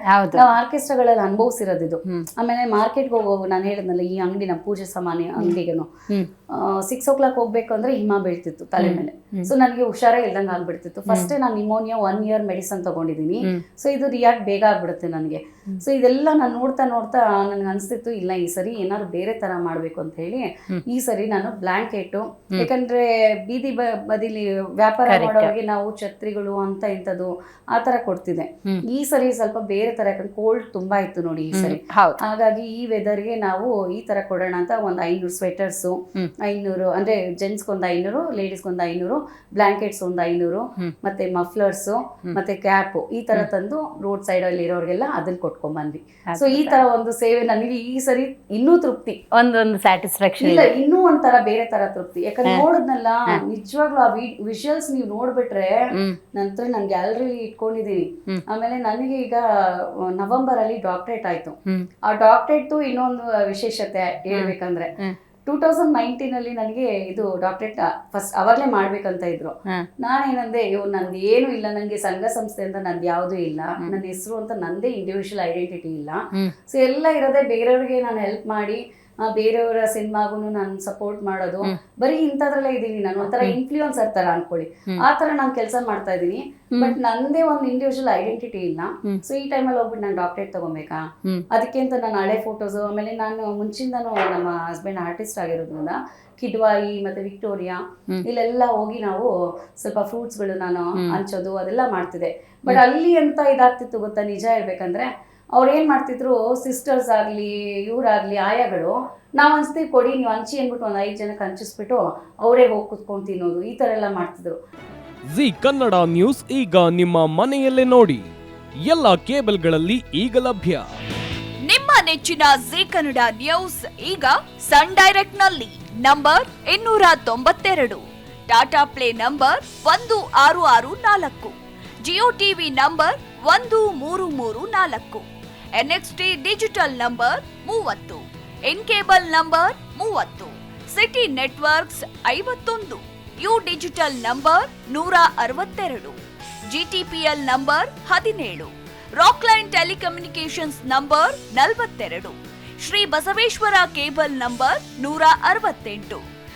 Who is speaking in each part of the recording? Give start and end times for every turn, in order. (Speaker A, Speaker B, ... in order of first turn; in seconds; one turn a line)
Speaker A: 0.1-0.4
Speaker B: 0.3-5.9
Speaker B: 6.5-49.2
Speaker A: 8.8-9.5
Speaker A: 25.1-25.5
Speaker A: 31.5-32.2
Speaker A: 46.3-46.8
Speaker A: 49.3-50.7
Speaker B: 50.4-55.8
Speaker B: 56.4-64.9
Speaker A: 64.3-65.1
Speaker B: 65.5-114.5
Speaker C: 115.3-118.2
Speaker C: 118.8-120.9
Speaker D: 121.7-131.5
Speaker D: 132.1-135.2
Speaker D: 135.8-146.2
Speaker D: 146.7-156.2